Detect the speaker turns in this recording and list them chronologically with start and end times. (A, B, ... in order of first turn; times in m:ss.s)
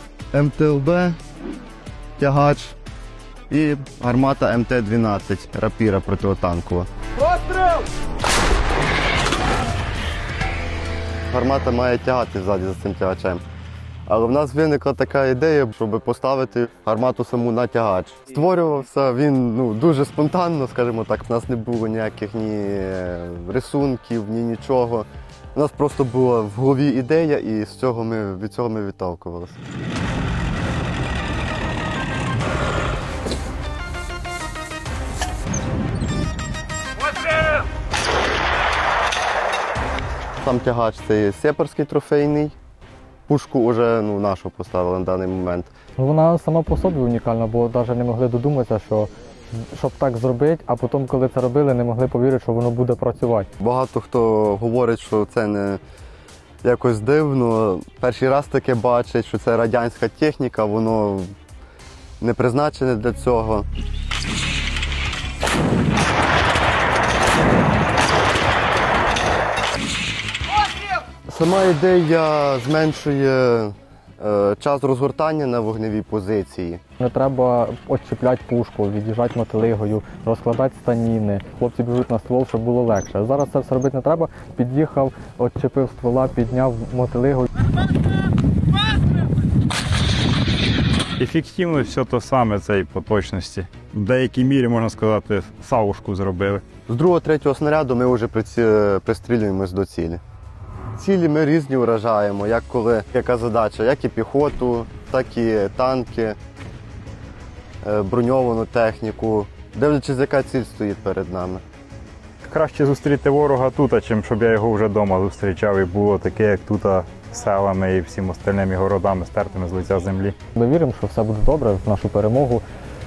0:00.3-0:01.2 A
0:02.2-0:02.8 A
0:03.5-0:06.9 A
0:11.3-0:13.4 A
0:14.0-0:29.6 A
0:40.4-0:42.5 A
0:43.3-0:45.7 A
0:46.0-0:53.5 B
0:53.6-0:55.8 A
0:56.6-1:01.3 A
1:02.2-1:03.7 A
1:11.2-1:16.8 A
1:17.0-1:27.6 B
1:31.2-1:36.6 C
1:36.9-1:40.2 A
1:41.0-1:46.4 A
1:47.8-1:51.6 A
1:52.4-2:00.3 C
2:00.6-2:02.6 B